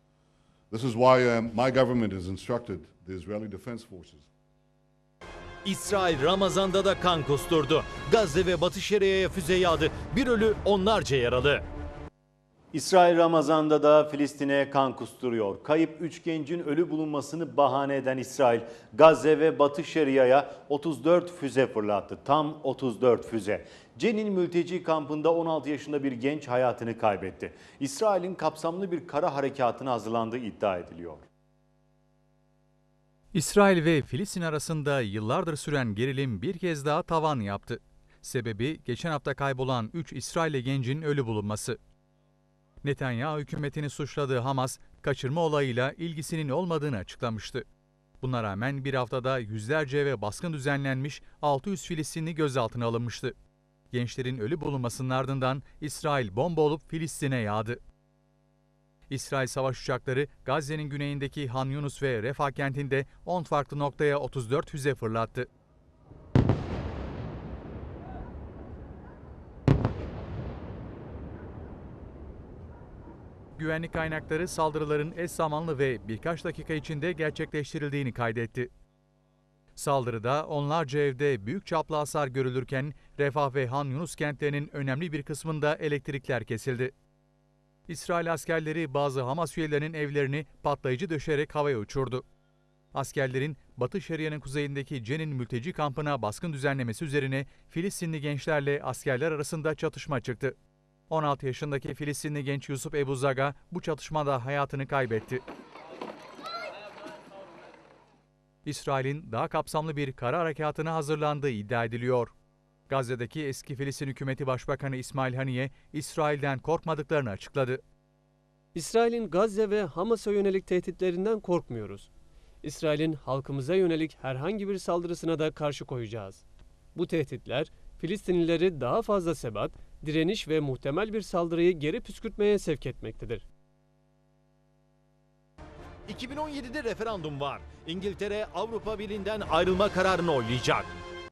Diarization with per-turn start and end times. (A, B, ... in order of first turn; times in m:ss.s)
0:00.7-0:04.3 A
0:05.6-0:11.6 B
0:12.7-0:31.2 C
0:33.3-0:41.8 D
0:42.8-0:47.6 D
0:48.2-0:53.3 D
0:53.9-0:57.8 D
0:59.1-1:05.5 D
1:13.6-1:18.7 D
1:19.8-1:26.9 D
1:27.9-1:32.2 D
1:32.9-1:40.5 D
1:41.1-1:45.4 D
1:48.6-1:52.3 D
1:52.9-1:57.8 D
1:58.7-2:02.1 E
2:02.6-2:06.4 E
2:06.9-2:13.4 E
2:16.1-2:20.9 B